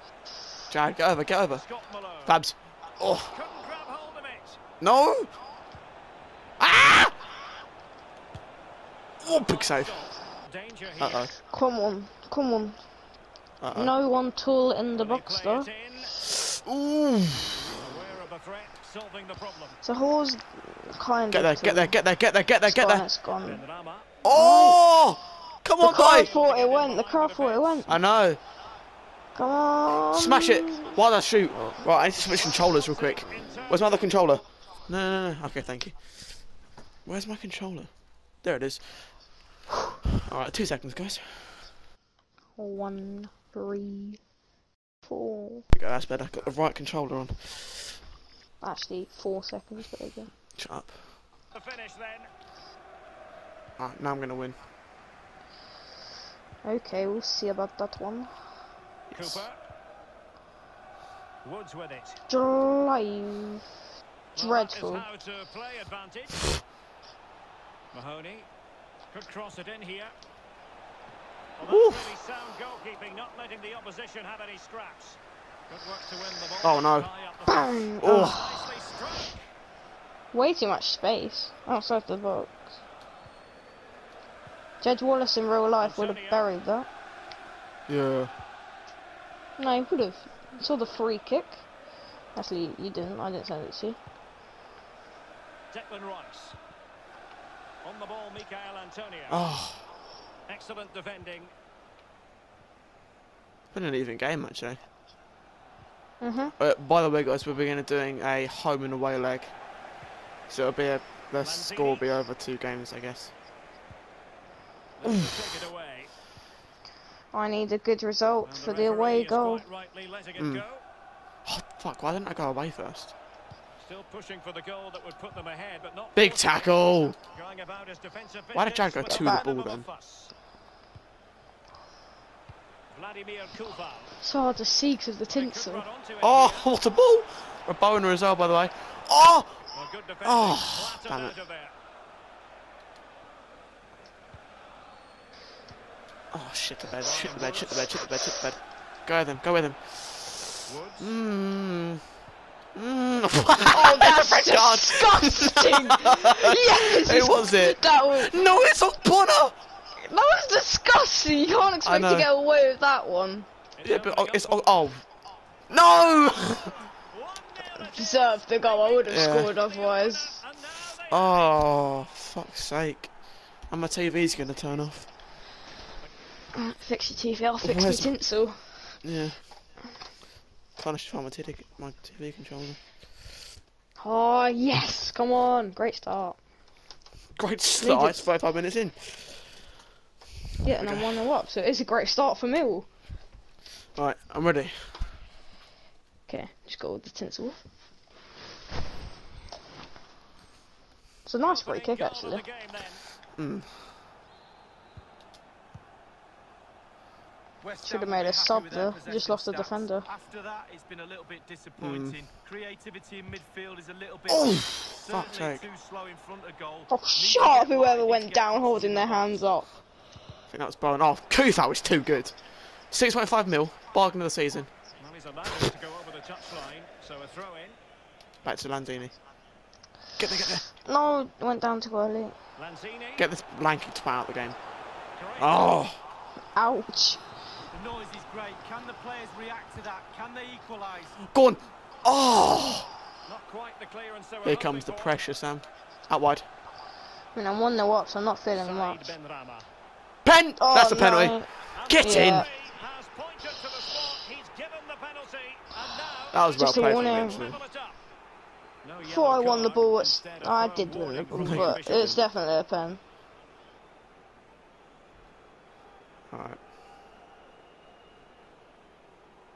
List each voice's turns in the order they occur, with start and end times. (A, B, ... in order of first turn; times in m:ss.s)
0:00.7-0:01.6 A
0:01.5-0:02.4 B
0:02.2-0:03.3 A
0:03.3-0:04.6 B
0:04.8-0:05.3 A
0:06.6-0:07.2 A
0:09.2-0:09.9 A
0:09.2-0:11.3 B
0:11.0-0:11.3 A
0:11.5-0:12.8 C
0:13.6-0:13.9 A
0:13.7-0:15.7 C
0:14.9-0:16.2 B
0:16.6-0:17.8 A
0:17.5-0:19.8 B
0:19.8-0:22.0 C
0:21.3-0:23.1 A
0:22.6-0:23.6 C
0:23.4-0:24.1 B
0:24.2-0:26.3 A
0:24.2-0:24.8 C
0:25.8-0:28.0 C
0:26.0-0:27.9 B
0:27.9-0:28.4 A
0:29.3-0:31.0 C
0:30.1-0:36.4 A
0:31.8-0:34.1 B
0:37.0-0:39.3 A
0:40.2-0:41.7 A
0:42.6-0:44.2 C
0:45.0-0:45.6 C
0:45.7-0:48.0 A
0:48.6-0:50.3 C
0:50.5-0:51.0 A
0:51.5-0:52.3 B
0:53.8-0:54.6 A
0:56.6-0:58.3 C
0:59.1-0:59.5 A
0:59.1-0:59.6 B
1:01.4-1:02.2 B
1:02.3-1:03.6 C
1:04.3-1:06.5 B
1:04.4-1:05.0 C
1:07.9-1:08.5 B
1:09.1-1:10.1 B
1:11.6-1:15.2 B
1:11.6-1:12.1 A
1:15.7-1:19.4 B
1:16.6-1:17.1 A
1:17.5-1:18.7 C
1:18.0-1:18.4 A
1:20.3-1:22.5 C
1:24.8-1:26.9 C
1:25.8-1:26.4 B
1:27.9-1:28.3 A
1:29.6-1:31.6 C
1:32.3-1:34.0 C
1:35.7-1:36.6 B
1:37.8-1:39.4 B
1:39.3-1:39.8 A
1:40.5-1:41.5 B
1:43.7-1:44.8 A
1:46.2-1:46.5 C
1:46.6-1:49.5 A
1:50.5-1:53.3 A
1:51.4-1:52.1 B
1:55.0-1:56.1 B
1:55.0-1:55.3 A
1:57.3-1:59.6 C
1:58.4-2:00.8 B
2:00.4-2:00.6 A
2:01.4-2:03.1 A
2:03.8-2:06.5 B
2:06.2-2:07.2 A
2:07.3-2:10.3 B
2:08.5-2:09.8 A
2:09.1-2:09.4 C
2:12.9-2:14.1 B
2:14.2-2:15.8 C
2:15.3-2:16.7 B
2:16.2-2:19.6 A
2:19.7-2:21.7 B
2:20.2-2:21.3 A
2:26.3-2:32.0 A
2:27.0-2:27.9 B
2:30.6-2:31.1 B
2:32.7-2:39.6 A
2:33.7-2:38.3 C
2:40.0-2:43.5 C
2:41.8-2:42.3 A
2:43.8-2:44.7 B
2:43.8-2:45.0 A
2:45.7-2:46.7 A
2:46.4-2:51.4 B
2:47.9-2:50.4 C
2:49.1-2:49.5 A
2:51.1-2:53.1 A
2:53.7-2:55.1 A
2:56.5-2:59.0 C
2:57.6-2:58.1 A
2:59.0-2:59.4 A
3:00.8-3:02.8 A
3:04.0-3:06.4 C
3:07.4-3:09.6 A
3:07.8-3:08.2 C
3:10.6-3:12.9 C
3:10.8-3:11.1 A
3:13.9-3:14.9 A
3:16.3-3:17.6 C
3:21.2-3:22.4 C
3:21.4-3:23.0 B
3:23.4-3:23.8 A
3:27.6-3:39.6 D
3:27.8-3:30.1 C
3:31.8-3:32.2 A
3:34.3-3:35.6 A
3:36.9-3:39.7 C
3:40.5-3:44.7 A
3:45.0-3:47.8 B
3:48.4-3:49.1 A
3:50.2-3:50.6 A
3:50.8-3:52.4 C
3:52.6-3:53.3 B
3:53.2-3:54.6 A
3:55.2-3:55.8 B
3:55.4-3:56.0 A
3:56.5-3:57.2 C
3:57.7-4:01.2 D
4:01.2-4:02.9 A
4:03.2-4:05.2 B
4:04.4-4:06.4 A
4:07.3-4:09.1 C
4:08.5-4:09.7 B
4:10.2-4:12.5 A
4:10.6-4:12.5 C
4:11.7-4:18.0 B
4:16.3-4:17.6 A
4:16.6-4:17.4 C
4:18.8-4:22.2 B
4:19.0-4:23.0 C
4:21.3-4:22.2 A
4:26.3-4:26.6 A